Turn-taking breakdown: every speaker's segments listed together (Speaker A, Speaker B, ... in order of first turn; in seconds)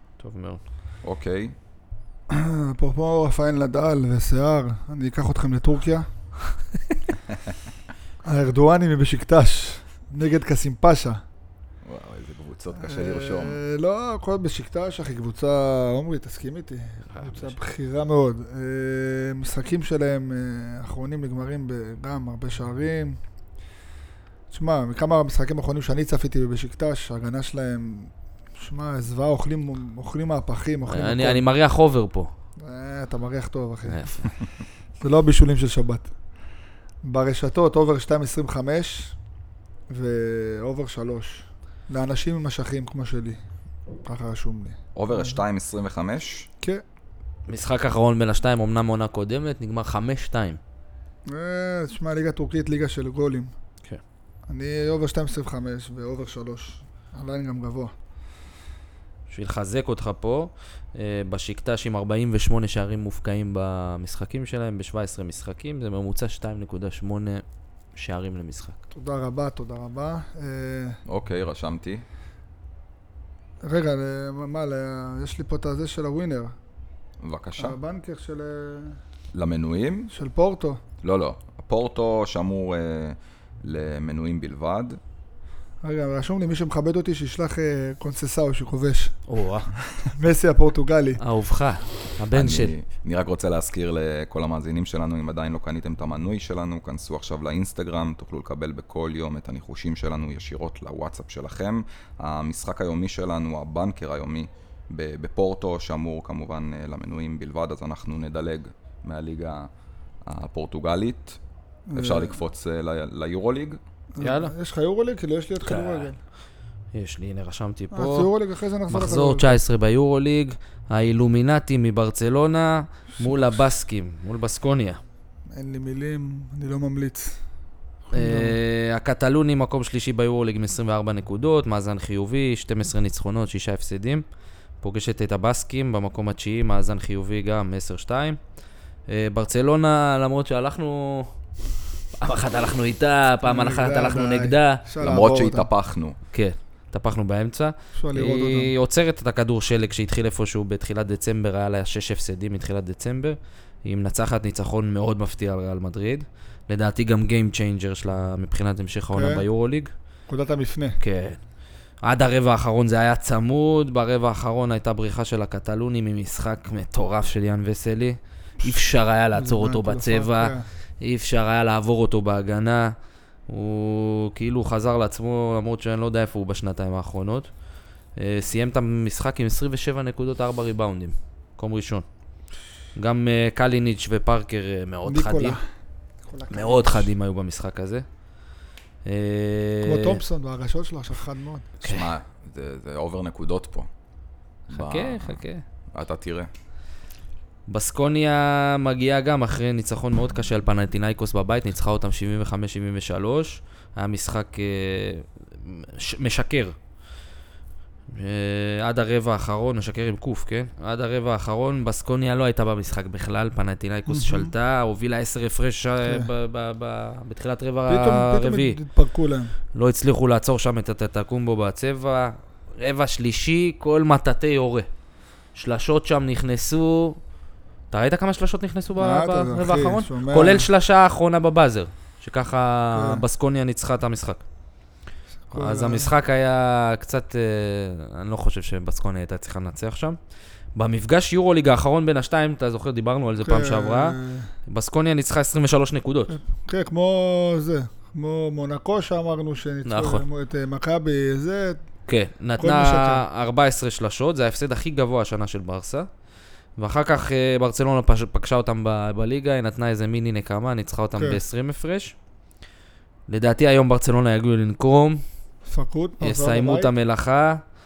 Speaker A: 0.2-0.6, 17.1-17.6, 30.9-32.3, 33.9-34.3, 47.5-50.6, 59.3-67.4, 67.9-68.8, 89.3-89.7, 91.2-92.7, 114.2-114.5, 115.6-116.1, 116.9-118.3, 118.9-125.0, 128.1-134.2, 134.8-138.4, 139.1-141.3, 142.2-144.8, 146.3-159.9, 161.0-161.4, 162.0-172.9, 173.5-177.5, 178.2-182.0, 182.9-185.6, 186.5-188.0, 189.0-190.2, 194.7-195.6, 197.7-206.7, 208.1-218.8, 219.7-224.9, 225.5-227.2, 227.9-234.4, 235.5-240.2, 240.7-246.4, 249.8-250.2, 252.1-256.1, 256.8-262.1, 263.3-265.2, 266.2-267.6
Speaker B: 1.0-1.6, 11.8-13.6, 44.9-46.5, 71.0-72.0, 77.2-77.8, 79.3-80.1, 81.0-85.0, 92.3-109.7, 110.2-111.4, 111.9-113.8, 145.0-146.2, 191.8-193.9, 194.7-195.4, 195.9-196.5
Speaker C: 2.3-6.1, 8.2-11.2, 12.8-23.2, 24.5-31.4, 32.6-34.3, 35.0-36.1, 37.0-39.1, 39.9-43.4, 44.0-45.4, 51.3-53.5, 54.5-57.9, 68.9-71.0, 73.6-76.5, 77.6-79.0, 80.1-80.8, 85.8-89.2, 89.9-91.2, 111.9-112.3, 114.1-116.2, 117.9-119.6, 123.2-123.6, 125.5-127.4, 128.1-128.6, 143.4-145.7, 147.9-148.7, 159.1-159.5, 160.3-161.0, 169.3-170.7, 185.0-185.6, 186.3-187.1, 189.8-191.7, 214.1-214.5, 216.0-216.3, 217.9-219.5, 229.0-230.7, 232.9-233.2, 235.5-236.1, 243.4-244.5, 246.3-251.8, 252.6-253.2, 261.1-261.4, 265.6-266.9